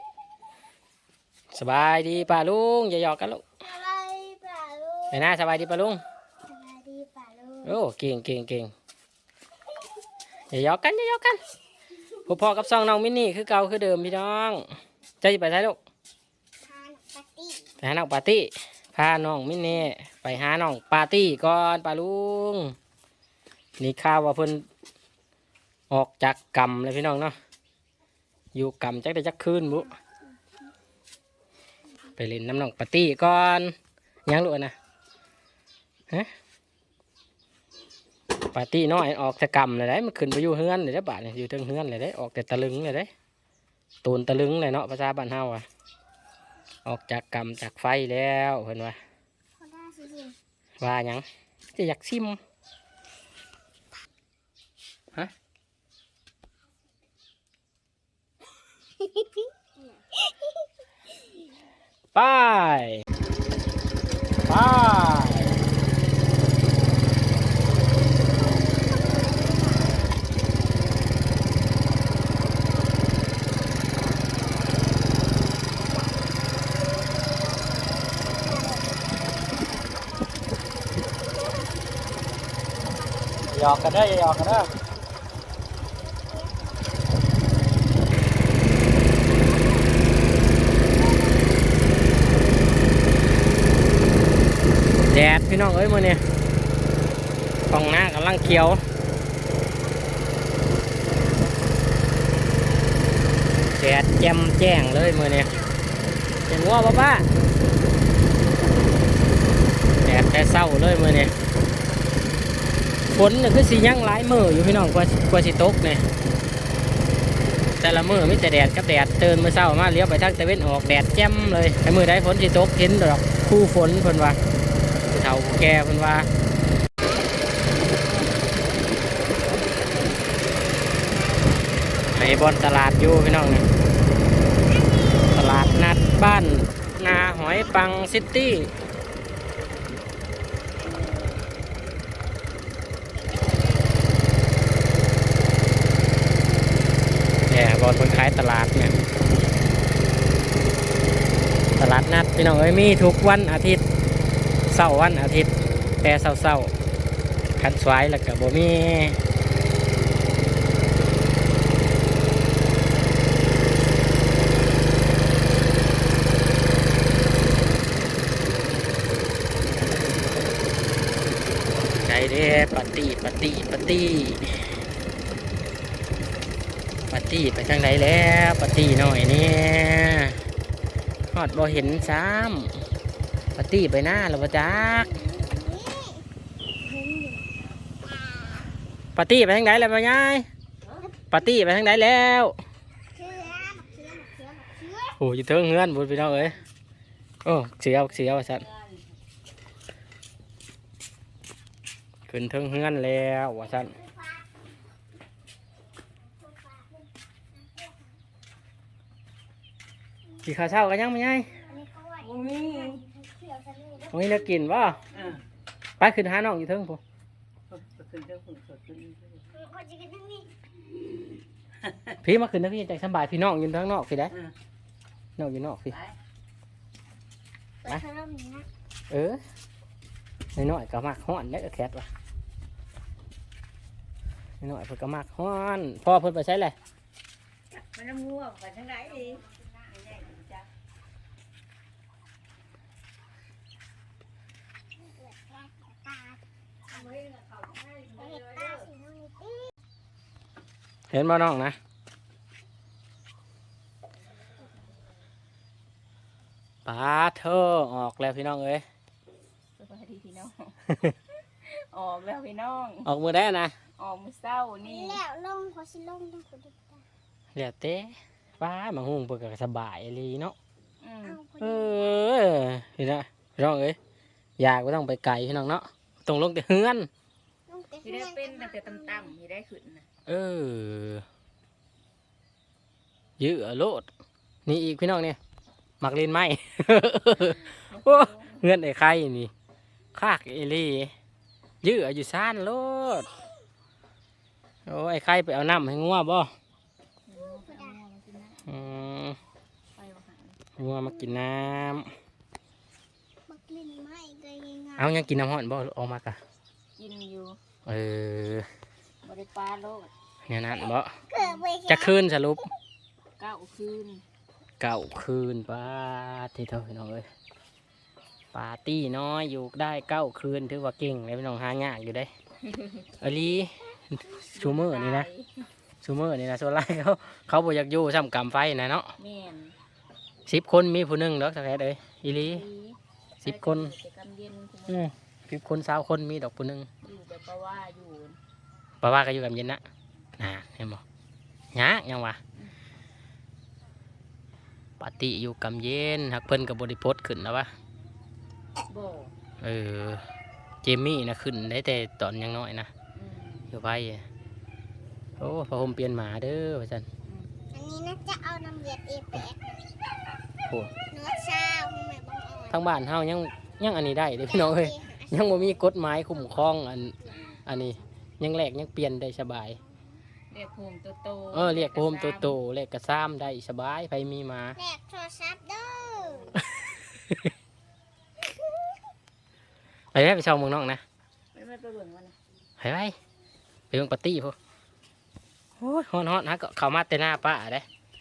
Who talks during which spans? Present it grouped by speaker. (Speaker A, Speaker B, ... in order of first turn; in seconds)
Speaker A: 1.5-3.4, 5.1-6.0, 7.6-8.7, 10.5-11.4, 12.2-14.7, 15.2-15.8, 17.8-22.7, 23.8-24.6, 25.9-27.4, 28.5-29.9, 32.1-33.7, 34.2-34.7, 38.4-43.1, 44.0-45.6, 46.8-49.0, 50.8-52.4, 62.1-63.0, 64.5-65.5, 83.5-84.7, 95.0-96.2, 97.7-98.8, 103.7-105.5, 106.5-107.3, 110.0-111.3, 113.1-116.0, 117.8-124.4, 125.1-126.3, 132.1-133.7, 135.3-138.7, 147.5-148.9, 151.8-153.8, 154.7-155.5, 156.0-156.7, 157.6-159.2, 171.9-174.7, 177.1-180.4, 181.3-182.8, 183.6-185.2, 189.2-190.5, 191.3-192.6, 195.2-196.6, 197.4-198.7, 202.3-204.0, 210.4-211.6, 214.1-215.0, 216.0-217.0, 222.2-224.3, 225.4-226.0, 229.1-229.4, 230.5-232.1, 234.6-236.8, 251.1-251.8, 256.8-258.8, 263.0-263.7, 267.5-270.6, 271.6-274.0, 274.6-277.1, 280.2-281.2, 283.4-284.1, 284.6-285.4, 286.0-289.5, 290.1-291.1, 291.8-293.3, 294.9-296.5, 298.7-299.4, 300.8-302.1, 305.0-306.4, 307.9-308.6, 310.5-311.1, 311.9-312.7, 314.8-317.2, 318.5-322.3, 323.2-325.3, 326.0-329.1, 330.4-332.6, 333.4-333.9, 334.9-336.9, 339.0-339.8, 340.4-341.0, 341.7-342.4, 345.0-347.7, 349.6-350.2, 350.8-352.9, 353.7-354.2, 355.4-357.1, 360.6-360.9, 362.7-369.8, 371.5-374.8, 376.6-377.5, 380.1-381.0, 382.8-383.1, 383.9-384.6, 385.8-387.9
Speaker B: 3.6-5.2, 6.5-7.8, 16.6-17.7, 49.6-50.4, 59.0-60.2, 134.7-136.2, 140.8-141.4, 143.1-144.1, 184.8-186.2, 186.8-187.5, 188.0-188.7, 193.1-195.2, 203.8-204.4, 206.4-207.0, 211.6-214.2, 219.5-220.5, 227.8-228.7, 245.0-246.4, 248.1-249.7, 264.8-267.0, 271.2-272.2, 277.7-279.3, 297.5-297.9, 301.1-301.5, 303.5-305.2, 311.3-312.2, 357.7-359.8, 361.1-362.8, 364.4-365.8, 374.8-376.6
Speaker C: 198.5-198.8, 212.2-213.0, 217.8-219.2, 237.7-240.7, 246.9-248.8, 259.8-260.8, 261.6-263.1, 264.0-265.2, 271.0-271.4, 278.0-280.1, 287.7-288.6, 297.3-299.1, 299.9-300.6, 307.0-307.6, 309.2-310.1, 311.3-311.6, 313.4-314.2, 322.7-323.0, 324.5-325.6, 329.2-329.7, 332.3-335.1, 337.0-338.4, 348.9-349.3, 353.1-353.7, 357.2-357.5, 370.5-372.6, 381.5-382.4